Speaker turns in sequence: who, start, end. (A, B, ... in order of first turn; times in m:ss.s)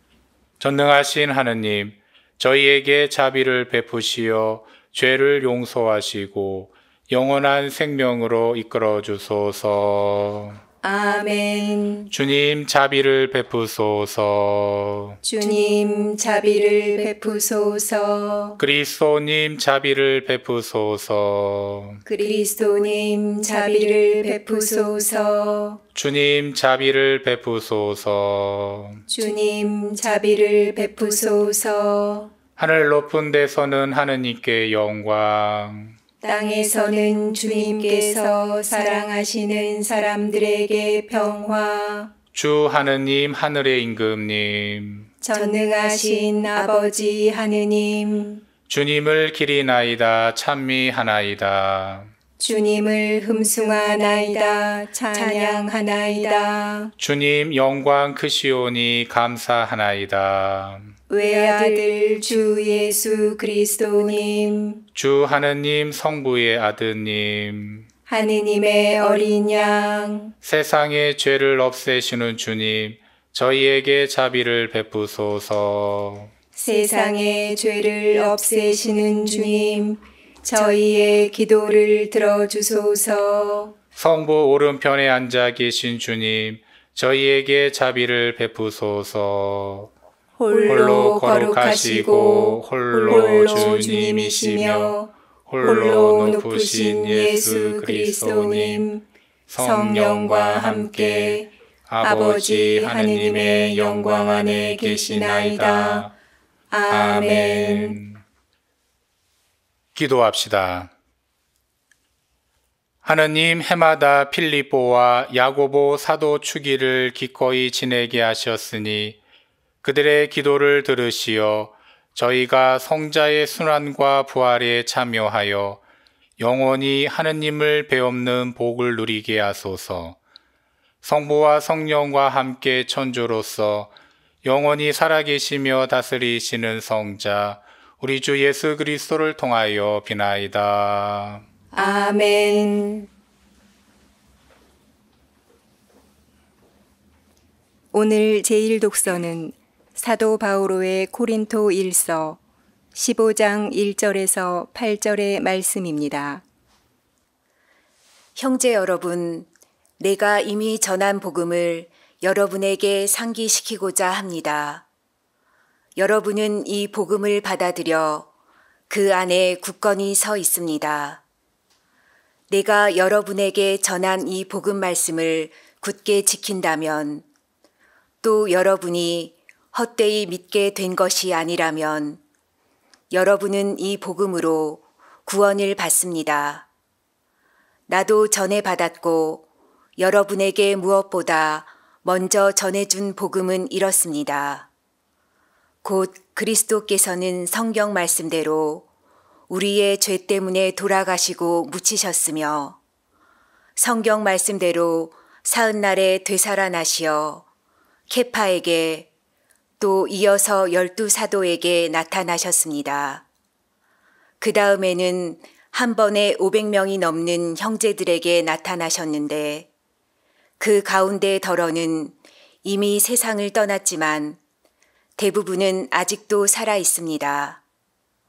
0:00.6-0:10.6 A
0:10.8-0:12.1 B
0:12.1-0:15.2 A
0:15.2-0:18.6 B
0:18.6-0:22.0 A
0:22.0-0:25.8 B
0:25.9-0:29.0 A
0:29.1-0:32.3 B
0:32.6-0:35.9 A
0:36.2-0:42.1 B
0:42.3-0:45.1 A
0:45.2-0:48.4 B
0:48.7-0:52.1 A
0:52.4-0:56.9 B
0:57.0-1:00.9 A
1:01.1-1:04.8 B
1:04.9-1:07.8 A
1:08.1-1:10.3 B
1:10.4-1:16.3 A
1:16.6-1:23.7 B
1:24.0-1:29.9 A
1:30.4-1:39.0 B
1:30.6-1:34.9 A
1:35.5-1:38.8 A
1:39.5-1:46.1 A
1:39.6-1:46.1 B
1:46.7-1:48.0 B
1:46.9-1:48.2 A
1:49.9-1:50.9 A
1:53.0-1:59.2 A
1:59.8-2:05.8 A
2:06.4-2:10.2 A
2:11.0-2:13.9 A
2:14.4-2:21.4 A
2:21.7-2:23.1 B
2:27.9-2:32.4 B
2:32.9-2:36.4 B
2:38.4-2:44.8 C
2:46.0-2:48.3 C
2:48.9-2:51.2 C
2:52.5-2:57.2 C
2:58.2-3:02.2 C
3:03.1-3:06.7 C
3:07.9-3:14.7 C
3:15.8-3:18.9 C
3:19.5-3:22.8 C
3:23.8-3:27.4 C
3:28.1-3:29.1 C
3:29.8-3:33.2 C
3:34.4-3:39.7 C
3:40.6-3:44.4 C
3:45.2-3:47.6 C